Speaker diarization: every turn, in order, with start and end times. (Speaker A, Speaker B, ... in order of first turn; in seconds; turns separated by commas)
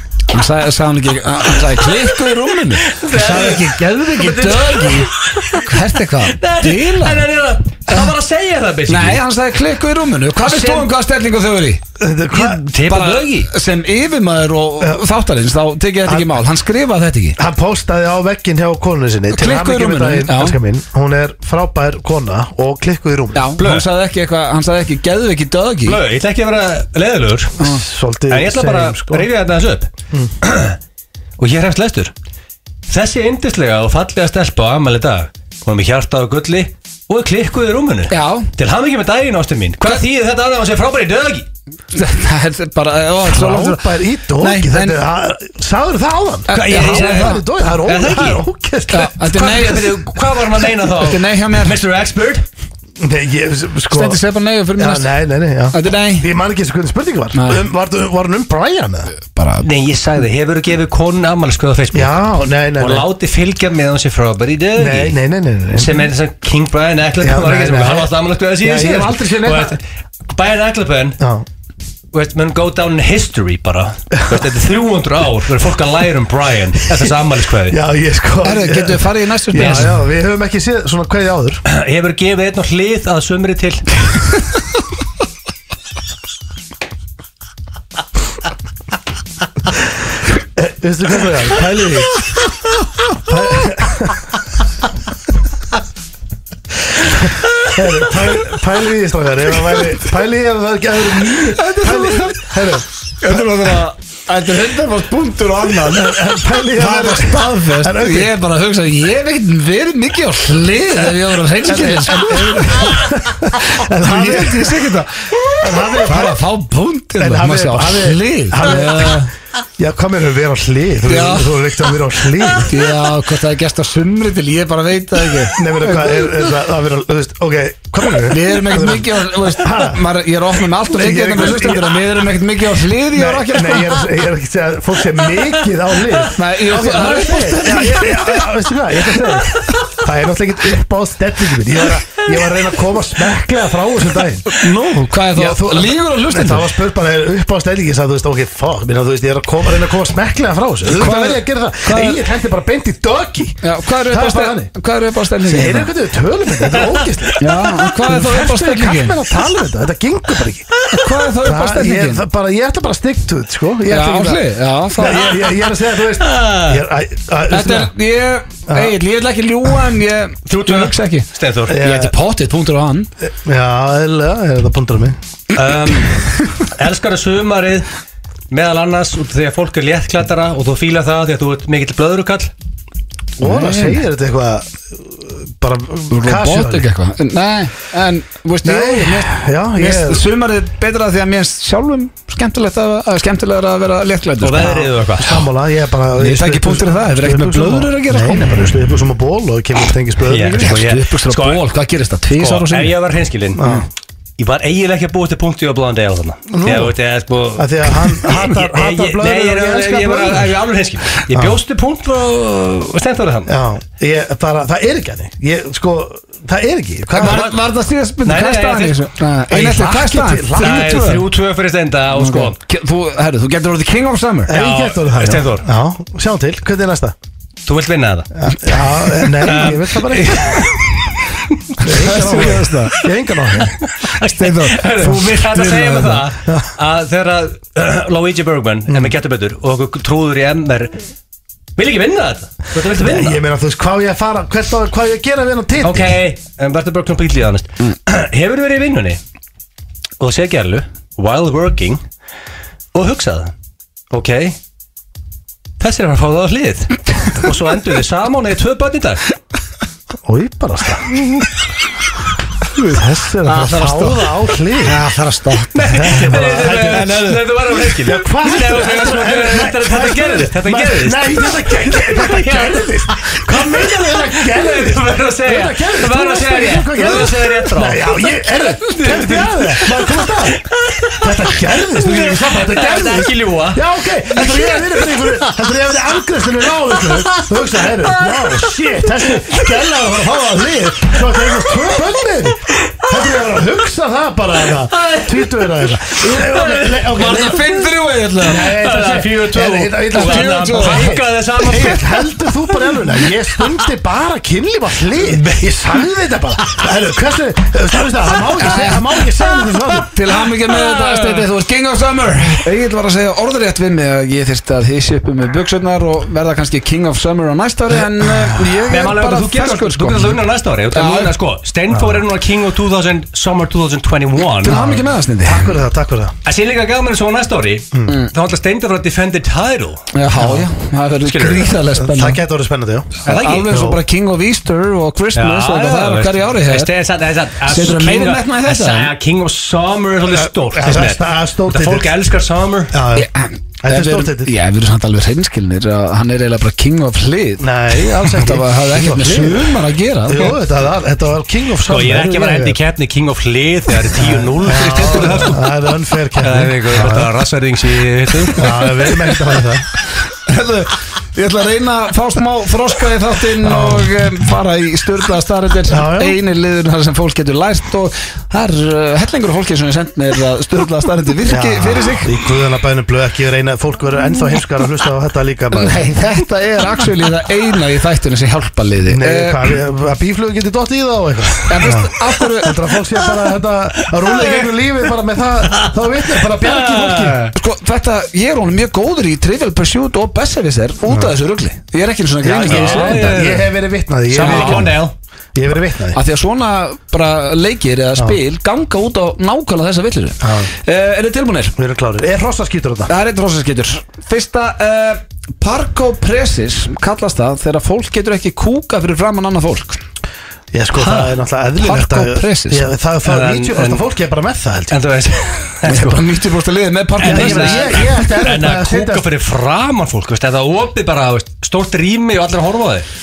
Speaker A: 0.3-7.3, Speaker B: 1.8-2.0, Speaker B: 2.8-9.2, Speaker C: 3.2-3.8, Speaker A: 8.9-11.8, Speaker B: 10.4-10.9, Speaker C: 12.0-12.6, Speaker B: 12.3-13.5, Speaker A: 12.8-17.4, Speaker C: 16.0-16.4, Speaker C: 17.4-23.5, Speaker A: 19.3-20.6, Speaker A: 23.3-26.0, Speaker B: 23.6-23.9, Speaker B: 25.8-27.6, Speaker C: 27.6-29.3, Speaker B: 28.3-30.8, Speaker B: 31.4-32.1, Speaker B: 32.9-41.5, Speaker A: 38.1-38.5, Speaker A: 41.9-45.0, Speaker C: 43.2-49.1, Speaker A: 46.5-47.4, Speaker B: 46.5-48.4, Speaker A: 48.9-50.1, Speaker B: 49.0-52.4, Speaker A: 50.9-51.8, Speaker C: 53.0-54.2, Speaker A: 53.9-55.1, Speaker C: 54.8-59.1, Speaker A: 55.7-56.3, Speaker A: 57.3-57.6, Speaker A: 59.1-59.7, Speaker B: 59.6-62.2, Speaker C: 61.9-63.0, Speaker B: 62.8-65.2, Speaker C: 64.8-66.0, Speaker B: 65.7-71.2, Speaker C: 67.2-69.8, Speaker C: 71.2-71.5, Speaker B: 72.1-77.8, Speaker C: 77.7-81.6, Speaker A: 78.4-80.0, Speaker B: 79.5-79.9, Speaker B: 81.7-83.9, Speaker C: 90.5-92.1, Speaker C: 93.2-94.3, Speaker C: 96.9-102.8, Speaker A: 101.5-102.6, Speaker A: 103.2-113.1, Speaker C: 105.7-108.3, Speaker C: 111.6-114.9, Speaker A: 113.6-119.3, Speaker C: 115.5-116.4, Speaker C: 117.2-119.2, Speaker C: 119.8-122.8, Speaker A: 121.1-121.5, Speaker A: 122.6-126.4, Speaker C: 125.5-130.0, Speaker A: 128.3-134.0, Speaker C: 130.8-132.1, Speaker C: 133.1-144.5, Speaker B: 136.1-137.4, Speaker A: 136.3-138.5, Speaker B: 139.3-139.8, Speaker A: 144.5-146.7, Speaker C: 145.3-154.7, Speaker A: 150.8-152.2, Speaker A: 153.6-155.9, Speaker C: 155.4-164.4, Speaker B: 156.6-157.8, Speaker A: 157.4-159.2, Speaker A: 160.9-162.2, Speaker A: 163.9-165.4, Speaker C: 164.9-167.9, Speaker B: 166.1-166.8, Speaker A: 167.5-173.1, Speaker C: 168.7-169.0, Speaker B: 170.5-171.8, Speaker C: 171.7-172.1, Speaker C: 173.2-175.2, Speaker B: 175.5-177.9, Speaker B: 178.5-182.5, Speaker A: 183.4-184.0, Speaker C: 183.4-186.8, Speaker A: 186.1-194.9, Speaker C: 188.6-190.2, Speaker B: 194.4-195.3, Speaker C: 195.2-200.7, Speaker A: 196.2-198.7, Speaker B: 200.2-201.6, Speaker A: 200.6-202.9, Speaker B: 202.4-203.6, Speaker C: 203.6-203.8, Speaker B: 204.4-213.5, Speaker C: 206.5-206.9, Speaker C: 207.6-210.6, Speaker C: 211.3-211.6, Speaker C: 213.5-217.5, Speaker A: 217.1-221.2, Speaker B: 217.2-217.5, Speaker B: 218.2-219.0, Speaker C: 219.5-221.0, Speaker B: 220.6-222.6, Speaker A: 222.1-224.5, Speaker B: 224.5-225.7, Speaker C: 224.5-227.1, Speaker B: 227.7-228.4, Speaker C: 228.3-230.7, Speaker B: 229.1-241.0, Speaker A: 231.8-233.0, Speaker C: 231.8-233.7, Speaker A: 234.1-236.2, Speaker B: 241.8-243.4, Speaker C: 242.8-246.2, Speaker B: 245.8-249.2, Speaker B: 250.2-252.0, Speaker B: 252.9-253.5, Speaker B: 254.1-254.6, Speaker B: 255.8-259.2, Speaker C: 260.2-261.1, Speaker C: 262.8-265.0, Speaker B: 263.4-264.6, Speaker A: 264.8-266.8, Speaker B: 265.7-285.7, Speaker C: 266.0-280.6, Speaker A: 279.1-279.4, Speaker C: 281.1-297.7, Speaker B: 287.0-289.7, Speaker B: 291.1-292.0, Speaker B: 294.9-297.9, Speaker A: 297.2-298.7, Speaker B: 298.4-303.8, Speaker C: 298.4-310.1, Speaker A: 300.1-301.2, Speaker B: 305.2-306.0, Speaker A: 308.6-309.0, Speaker B: 309.4-310.0, Speaker A: 310.1-320.4, Speaker B: 310.6-311.5, Speaker C: 317.9-318.8, Speaker B: 318.9-324.8, Speaker A: 320.9-321.3, Speaker C: 321.9-322.2, Speaker A: 324.6-325.7, Speaker C: 324.7-326.3, Speaker B: 326.4-330.1, Speaker A: 330.1-332.4, Speaker C: 330.3-330.6, Speaker B: 331.2-331.8, Speaker C: 331.9-334.0, Speaker A: 333.2-336.9, Speaker B: 333.2-333.8, Speaker B: 335.3-343.0, Speaker A: 337.6-339.1, Speaker C: 340.3-342.1, Speaker C: 342.9-343.3, Speaker A: 343.1-350.5, Speaker C: 343.8-344.5, Speaker C: 347.6-352.8, Speaker B: 351.8-355.6, Speaker C: 354.1-357.3, Speaker A: 355.0-355.5, Speaker B: 356.4-358.9, Speaker C: 358.5-359.9, Speaker A: 360.3-372.3, Speaker C: 363.6-364.1, Speaker C: 365.9-366.4, Speaker C: 371.5-376.1, Speaker A: 375.7-379.7, Speaker C: 379.1-387.5, Speaker A: 381.7-382.7, Speaker B: 384.0-384.7, Speaker B: 385.7-387.5, Speaker A: 387.5-393.5, Speaker C: 392.4-395.0, Speaker B: 392.6-393.7, Speaker A: 394.3-395.0, Speaker B: 394.3-395.1, Speaker C: 395.5-396.2, Speaker A: 396.1-401.7, Speaker C: 400.4-400.7, Speaker C: 401.8-403.1, Speaker A: 403.1-410.0, Speaker C: 410.7-415.0, Speaker B: 410.9-411.4, Speaker A: 411.8-412.9, Speaker B: 413.2-414.0, Speaker B: 414.9-416.3, Speaker A: 415.8-418.2, Speaker B: 417.2-423.1, Speaker C: 417.2-419.2